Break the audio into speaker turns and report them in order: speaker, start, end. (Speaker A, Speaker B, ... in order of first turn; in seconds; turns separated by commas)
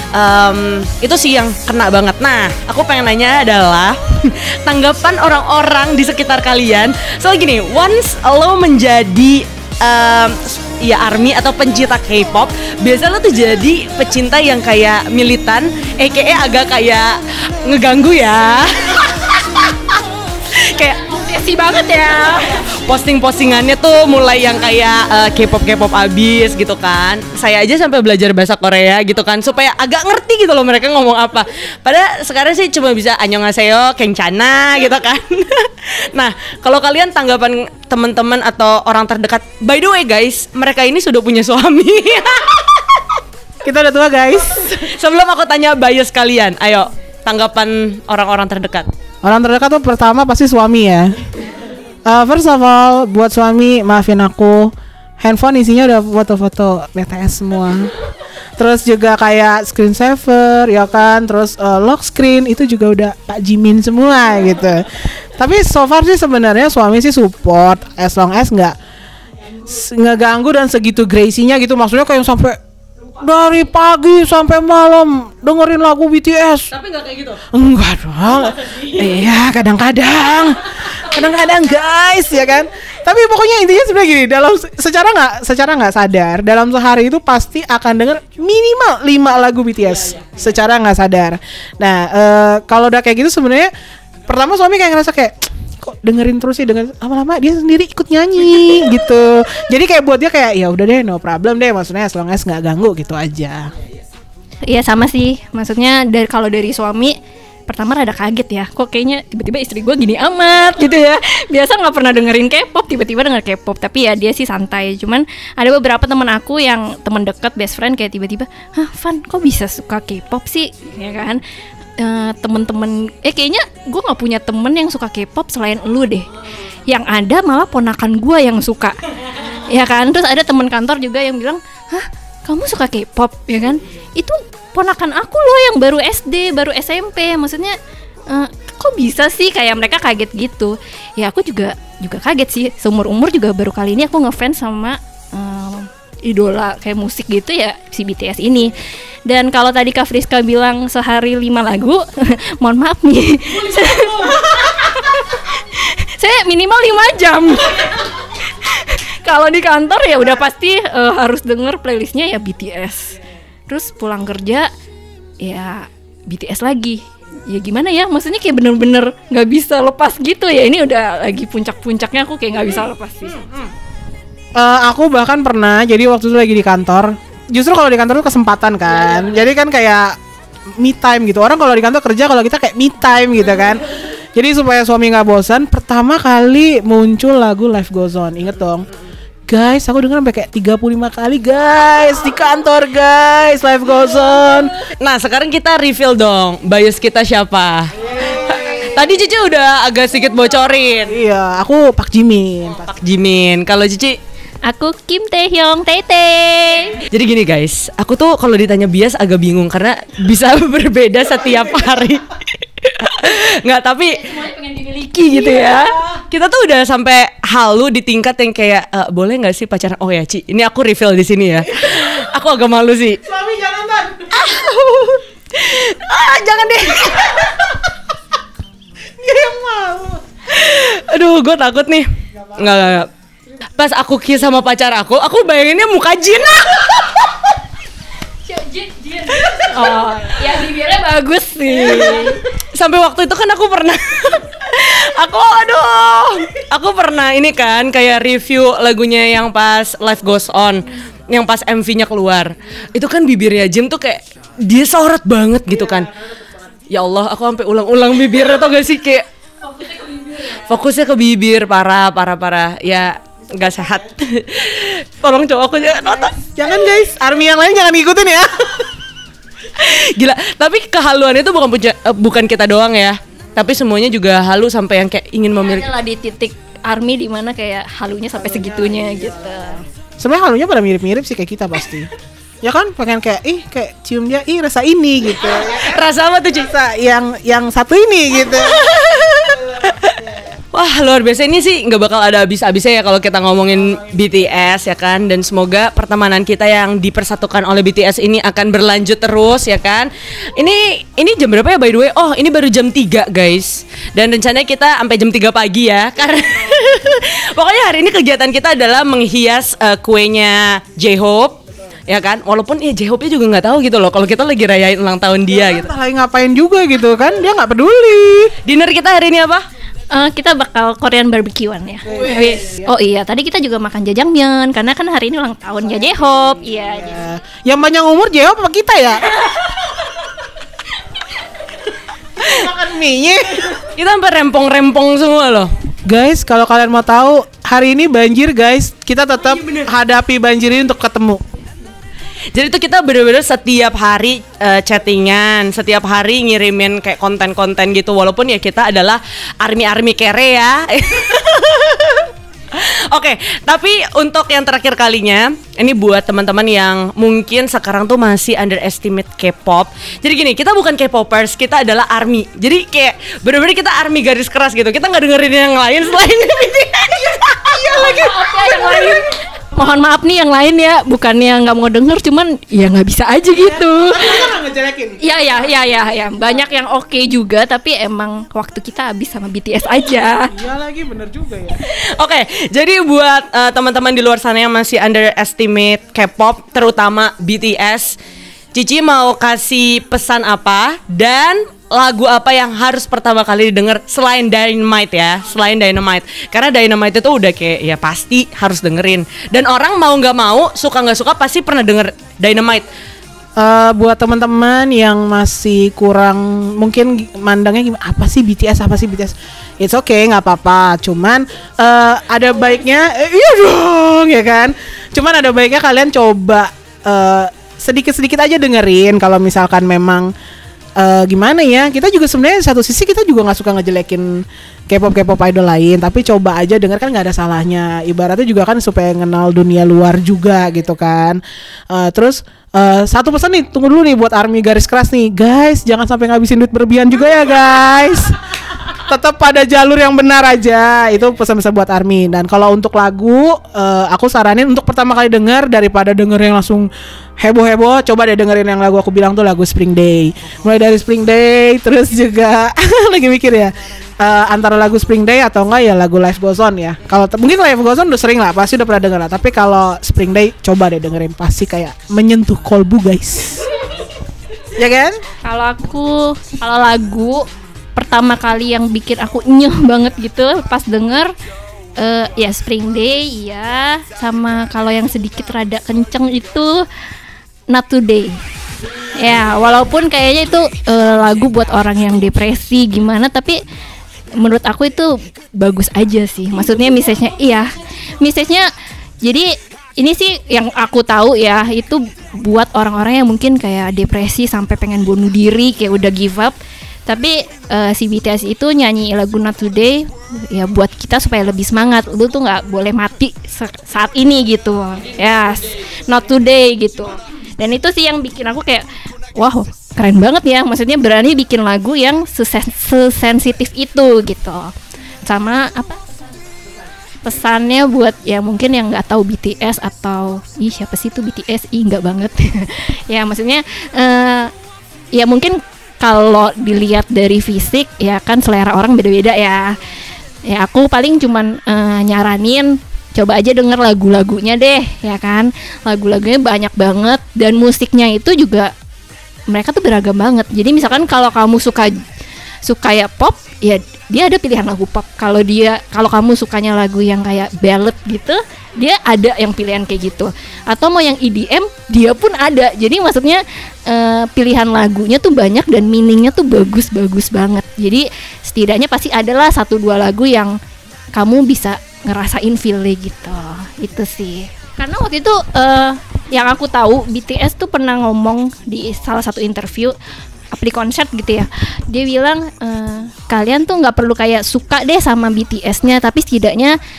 Speaker A: 0.1-19.4, Speaker A: 20.5-21.0, Speaker B: 21.0-22.6, Speaker A: 22.5-43.1, Speaker C: 43.6-44.8, Speaker A: 44.6-48.9, Speaker C: 49.2-51.2, Speaker C: 52.0-58.0, Speaker C: 58.6-68.8, Speaker C: 69.6-72.6, Speaker C: 73.1-76.7, Speaker A: 76.7-77.4, Speaker C: 77.4-93.7, Speaker C: 94.3-103.7, Speaker B: 104.7-107.2, Speaker B: 107.7-121.4, Speaker B: 122.0-126.3, Speaker B: 126.9-137.8, Speaker B: 138.3-148.7, Speaker B: 149.2-163.2, Speaker B: 163.7-164.7, Speaker B: 165.4-173.4, Speaker C: 174.6-180.2, Speaker C: 180.8-188.9, Speaker C: 189.5-194.8, Speaker A: 195.0-201.2, Speaker C: 198.2-198.9, Speaker C: 201.1-202.9, Speaker A: 202.8-204.2, Speaker B: 204.6-207.0, Speaker A: 207.0-214.3, Speaker B: 214.1-216.0, Speaker A: 216.1-223.2, Speaker C: 223.2-224.3, Speaker A: 224.3-227.6, Speaker C: 229.2-230.2, Speaker A: 230.5-233.1, Speaker A: 233.8-237.3, Speaker B: 238.4-242.4, Speaker A: 241.9-256.1, Speaker A: 256.9-259.2, Speaker A: 260.2-266.4, Speaker C: 266.5-268.9, Speaker A: 269.7-275.9, Speaker B: 275.6-279.8, Speaker C: 278.6-279.5, Speaker C: 280.2-282.1, Speaker C: 282.6-289.2, Speaker A: 285.7-286.7, Speaker A: 288.4-315.9, Speaker C: 315.6-318.5, Speaker A: 318.6-319.6, Speaker B: 320.1-327.3, Speaker C: 322.1-322.8, Speaker C: 326.9-329.5, Speaker C: 332.4-333.9, Speaker A: 333.8-335.7, Speaker C: 336.1-341.4, Speaker A: 339.4-339.9, Speaker A: 342.5-368.3, Speaker C: 367.6-368.5, Speaker B: 367.9-374.5, Speaker C: 373.6-375.2, Speaker B: 375.2-380.5, Speaker C: 380.5-381.8, Speaker A: 381.8-388.2, Speaker A: 388.7-402.9, Speaker C: 403.6-420.3, Speaker C: 421.0-463.7, Speaker C: 464.8-465.2, Speaker B: 465.4-467.4, Speaker B: 467.9-471.3, Speaker B: 472.0-476.8, Speaker B: 477.7-478.4, Speaker B: 479.1-483.6, Speaker B: 484.4-487.7, Speaker B: 488.2-488.7, Speaker B: 489.2-496.5, Speaker B: 497.1-514.7, Speaker B: 515.2-516.0, Speaker B: 517.2-524.5, Speaker B: 525.1-529.8, Speaker B: 530.5-538.7, Speaker B: 539.5-542.0, Speaker B: 542.6-560.6, Speaker B: 561.1-570.0, Speaker B: 570.5-576.8